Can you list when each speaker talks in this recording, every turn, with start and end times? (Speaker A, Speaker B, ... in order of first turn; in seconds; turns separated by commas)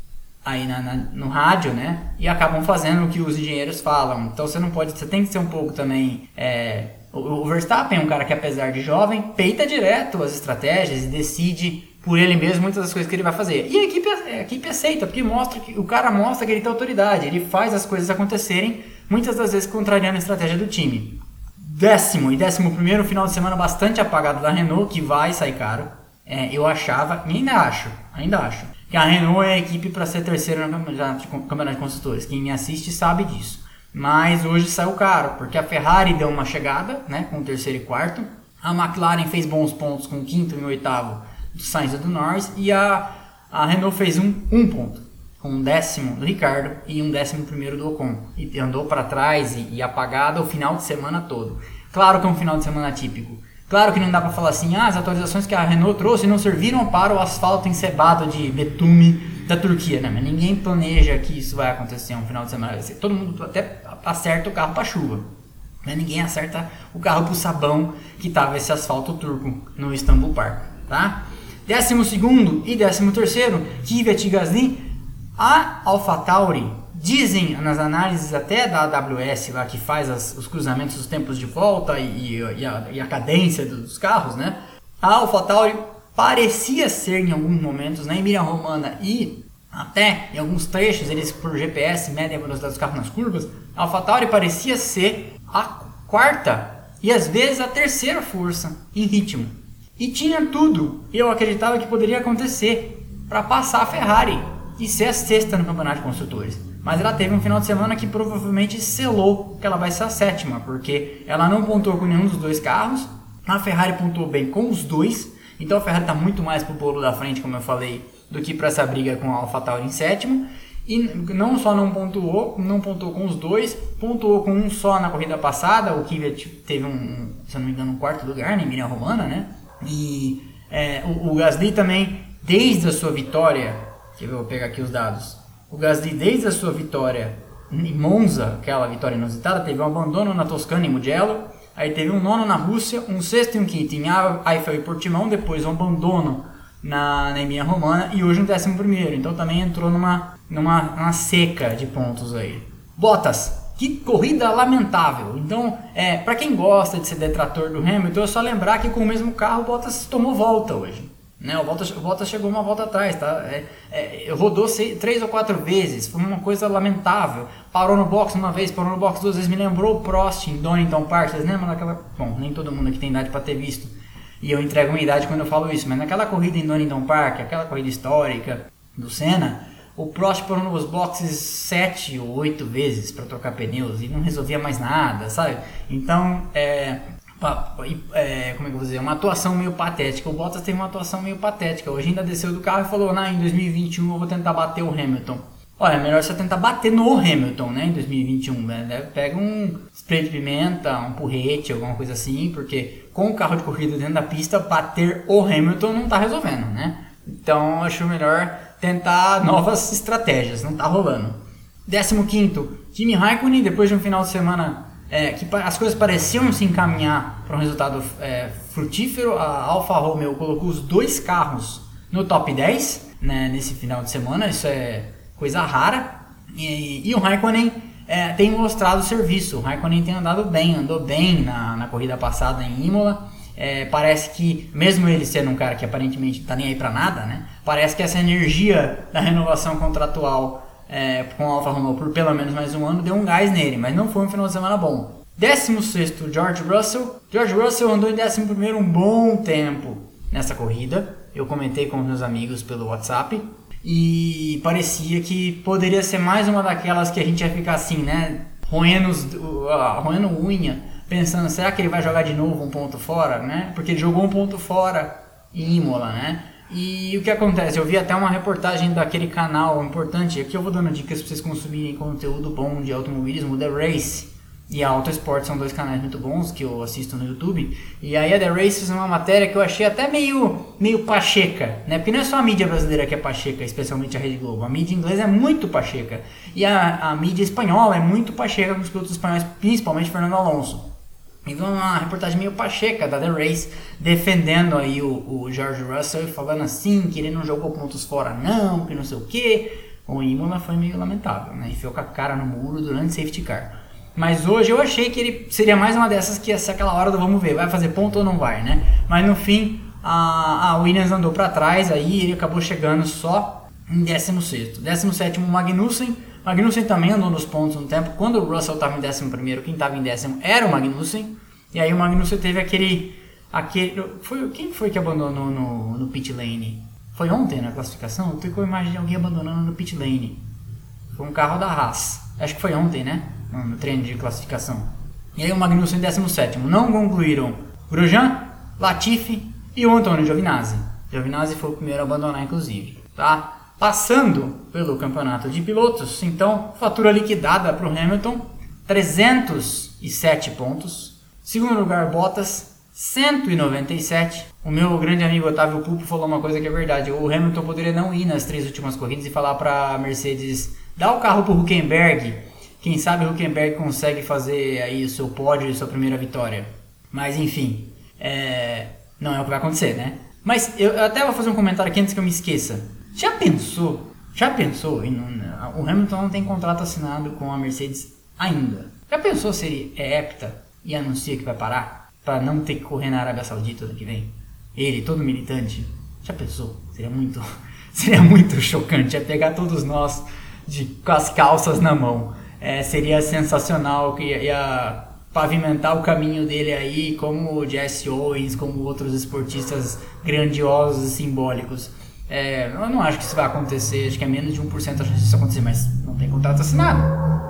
Speaker A: 0.4-65.2, Speaker A: 65.8-74.8, Speaker A: 75.4-211.4, Speaker A: 211.9-290.9, Speaker A: 291.5-330.4, Speaker A: 331.1-407.2